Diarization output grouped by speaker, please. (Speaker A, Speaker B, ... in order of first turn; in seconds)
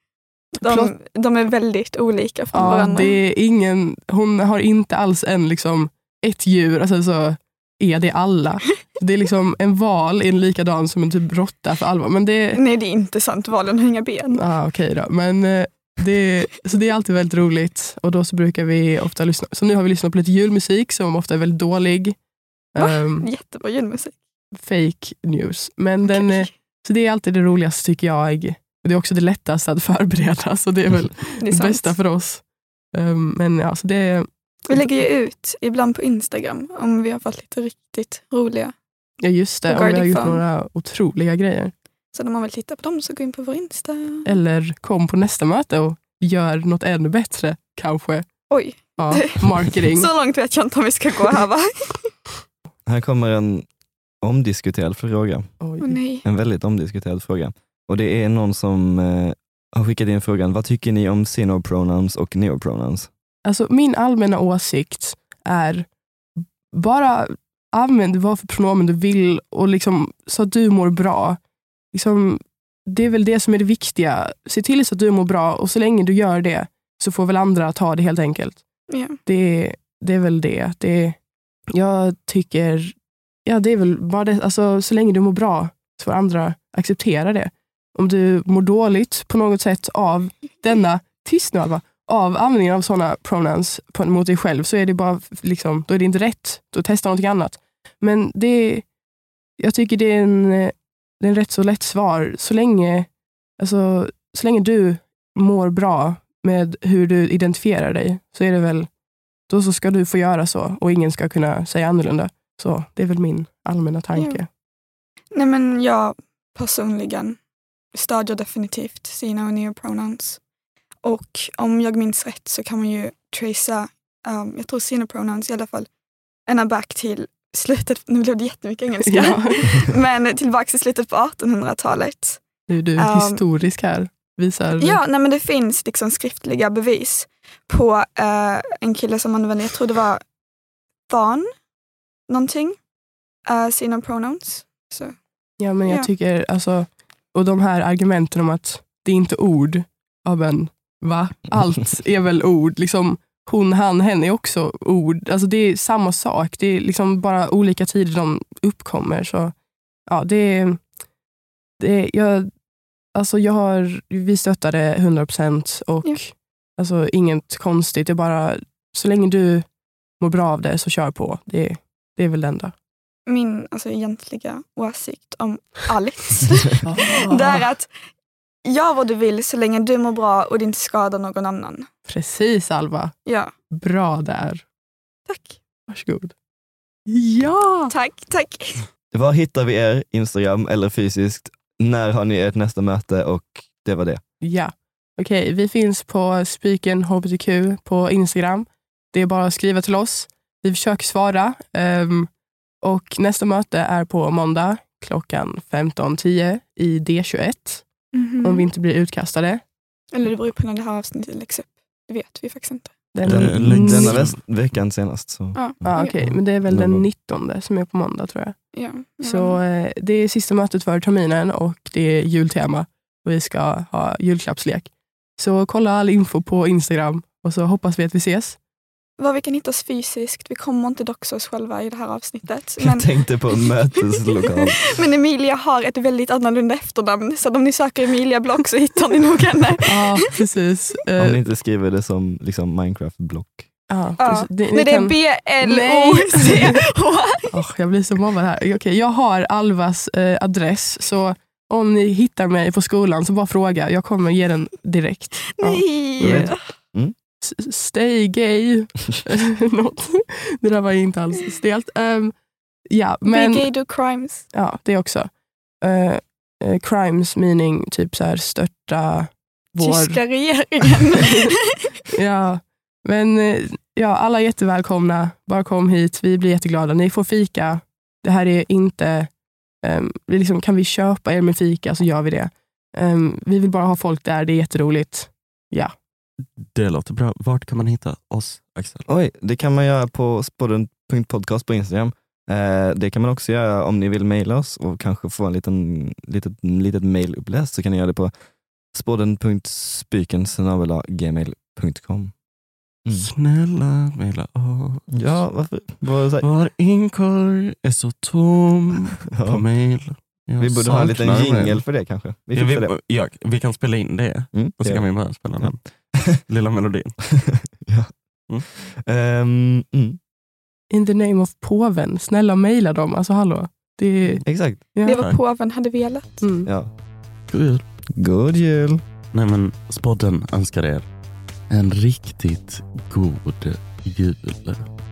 Speaker A: 0.6-3.2, 12.6-14.4, 22.8-24.2, 26.1-26.5, 31.4-31.9, 34.7-38.7, 39.7-40.4, 42.1-44.3, 48.5-52.1, 55.8-56.2, 78.9-79.2, 114.2-114.4, 115.3-117.4, 117.9-120.4, 121.0-125.9, 126.5-132.4, 133.0-133.4, 134.8-140.2, 141.1-141.5, 142.3-142.8, 143.5-145.2, 173.3-177.9, 178.7-181.9, 183.3-183.5, 185.3-185.6, 187.9-188.9, 208.1-208.7, 210.1-213.0, 215.6-216.2, 218.7-219.6, 229.2-233.7, 234.4-240.2, 244.2-247.5, 255.6-256.6, 263.3-264.5, 269.8-271.9, 325.1-326.4
Speaker B: 0.6-0.9, 2.5-12.6, 14.3-22.2, 22.7-23.3, 24.6-32.4, 32.9-34.9, 39.2-41.7, 44.2-48.3, 49.0-50.1, 55.6-56.0, 63.5-65.9, 66.4-71.4, 71.9-78.6, 79.2-81.2, 81.7-83.0, 83.5-98.9, 99.6-108.9, 109.5-114.5, 129.1-129.9, 132.7-135.0, 145.6-159.5, 160.1-160.8, 161.8-162.5, 163.1-169.7, 170.2-172.7, 176.8-177.7, 182.1-183.2, 183.7-184.7, 185.9-186.3, 187.1-187.9, 194.4-202.3, 202.8-207.9, 208.4-209.6, 213.1-214.2, 215.8-218.6, 219.2-228.6, 239.9-241.4, 243.9-246.8, 247.5-256.5, 257.4-262.4, 262.9-263.7, 264.5-265.3, 265.8-270.2, 271.2-271.5, 272.1-279.3, 279.8-285.9, 320.9-324.4, 324.9-325.3, 326.4-326.7
Speaker C: 52.9-53.7, 54.2-55.5, 56.2-63.1, 189.1-194.2, 213.2-217.1, 232.8-235.0, 241.2-243.7, 256.2-257.1, 289.1-298.3, 298.9-302.3, 305.1-306.5, 309.3-309.6, 310.6-312.9, 314.5-315.1, 315.6-316.4, 317.3-318.1, 318.7-320.2, 324.4-324.8, 326.7-326.9, 328.1-329.0
Speaker D: 213.2-214.4, 286.4-289.1, 303.1-305.3, 306.4-311.8, 312.6-317.2, 325.1-325.4, 327.5-327.8, 329.3-331.1, 331.7-334.9